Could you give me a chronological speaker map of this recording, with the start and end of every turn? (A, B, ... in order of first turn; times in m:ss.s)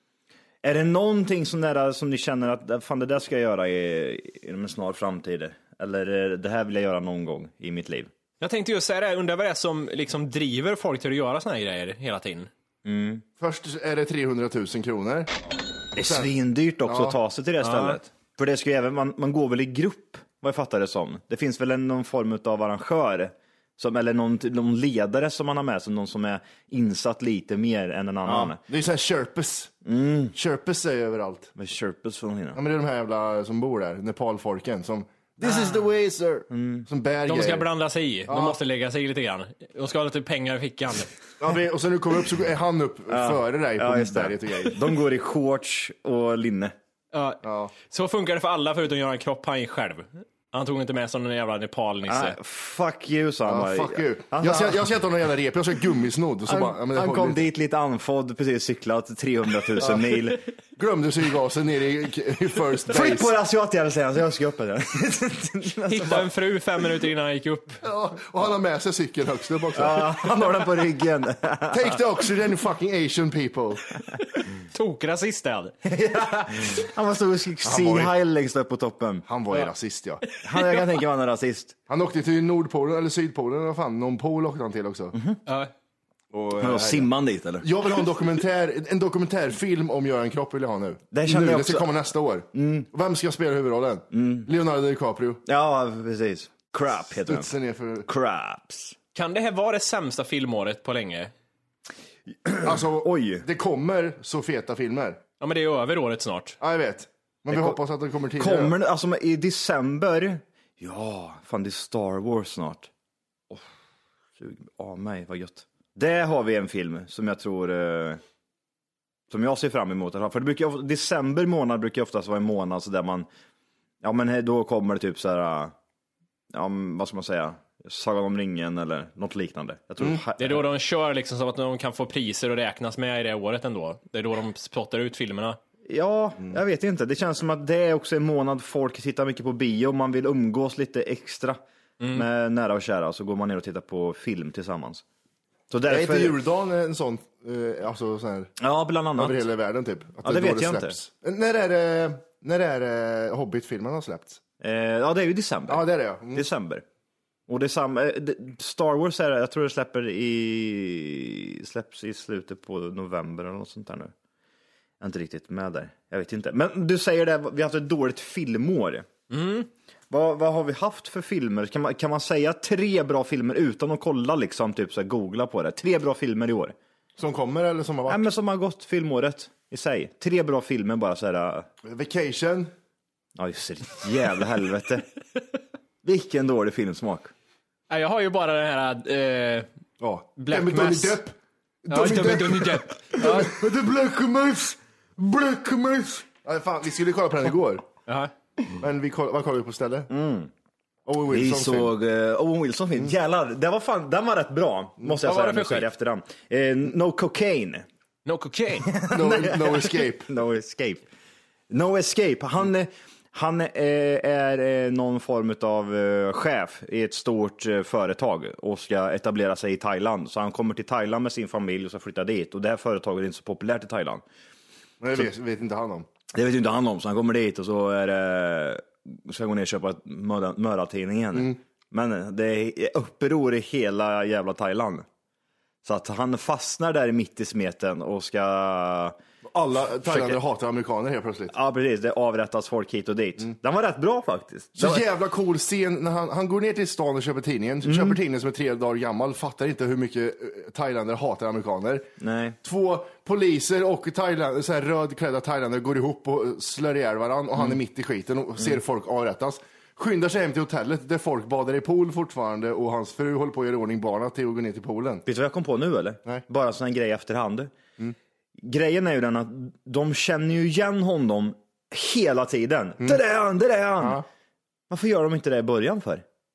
0:00.6-0:08.1 A
0:08.4-0:12.5 B
0:12.8-0:13.2 A
0:13.4-0:15.3 C
0:15.9-0:28.6 A
0:16.0-0:16.3 C
0:16.8-0:17.2 C
0:17.6-0:18.0 B
0:28.2-0:29.8 C
0:29.8-0:30.3 A
0:30.3-0:31.5 C
0:31.6-0:32.6 A
0:32.5-0:37.7 C
0:35.4-0:35.8 B
0:36.5-0:36.9 A
0:37.2-0:41.1 B
0:38.3-0:38.6 C
0:41.4-0:44.9 C
0:43.1-0:46.7 A
0:47.1-0:52.4 B
0:47.4-0:47.7 C
0:52.0-0:54.8 A
0:53.4-0:57.5 C
0:56.5-1:00.4 A
1:00.8-1:03.3 C
1:02.9-1:06.3 A
1:05.9-1:07.8 B
1:07.8-1:10.3 C
1:09.7-1:12.0 A
1:11.7-1:13.9 C
1:14.7-1:15.7 B
1:15.8-1:19.2 A
1:17.6-1:18.1 C
1:19.3-1:20.2 C
1:20.3-1:20.8 B
1:20.4-1:21.7 A
1:21.9-1:25.1 C
1:25.1-1:25.4 A
1:25.4-1:25.7 B
1:26.3-1:27.1 C
1:26.6-1:27.7 A
1:27.6-1:35.4 C
1:31.1-1:31.8 A
1:32.5-1:32.9 A
1:34.1-1:34.5 A
1:35.4-1:37.5 A
1:37.2-1:38.1 C
1:38.0-1:39.0 A
1:39.1-1:41.3 B
1:42.3-1:43.4 A
1:42.6-1:45.2 C
1:45.4-1:46.6 B
1:46.6-1:48.7 C
1:47.5-1:47.8 A
1:48.4-1:52.9 A
1:54.4-1:58.2 A
1:59.3-2:03.3 A
2:04.0-2:05.7 A
2:06.5-2:10.6 A
2:10.4-2:15.6 B
2:15.8-2:21.6 A
2:22.0-2:22.2 B
2:22.1-2:25.0 A
2:25.7-2:26.4 A
2:25.9-2:28.6 C
2:28.6-2:29.4 A
2:29.2-2:34.4 C
2:30.2-2:31.0 A
2:34.6-2:36.8 A
2:35.7-2:36.5 C
2:37.5-2:44.1 A
2:45.0-2:49.1 A
2:49.3-2:49.7 B
2:50.1-2:56.7 A
2:57.2-2:58.2 C
2:58.1-3:01.7 A
3:01.8-3:02.7 C
3:03.4-3:05.0 A
3:06.0-3:07.3 A
3:07.9-3:09.7 B
3:10.0-3:11.3 C
3:10.4-3:11.2 B
3:11.8-3:17.8 C
3:11.9-3:13.6 B
3:13.4-3:13.6 A
3:18.1-3:18.3 B
3:18.7-3:20.1 C
3:20.1-3:20.5 A
3:21.0-3:21.9 C
3:21.3-3:27.9 A
3:25.2-3:25.9 B
3:28.2-3:28.9 B
3:28.8-3:31.0 A
3:29.1-3:30.3 C
3:31.7-3:44.2 A
3:45.0-3:46.1 C
3:46.3-3:55.0 A
3:51.3-3:51.6 C
3:55.8-3:59.2 A
3:59.5-4:01.5 C
4:00.0-4:00.4 A
4:01.5-4:05.0 A
4:04.8-4:12.1 C
4:07.8-4:08.2 A
4:12.2-4:12.6 A
4:12.6-4:25.2 C
4:25.2-4:27.7 A
4:28.6-4:34.2 A
4:34.0-4:34.2 C
4:34.9-4:36.2 A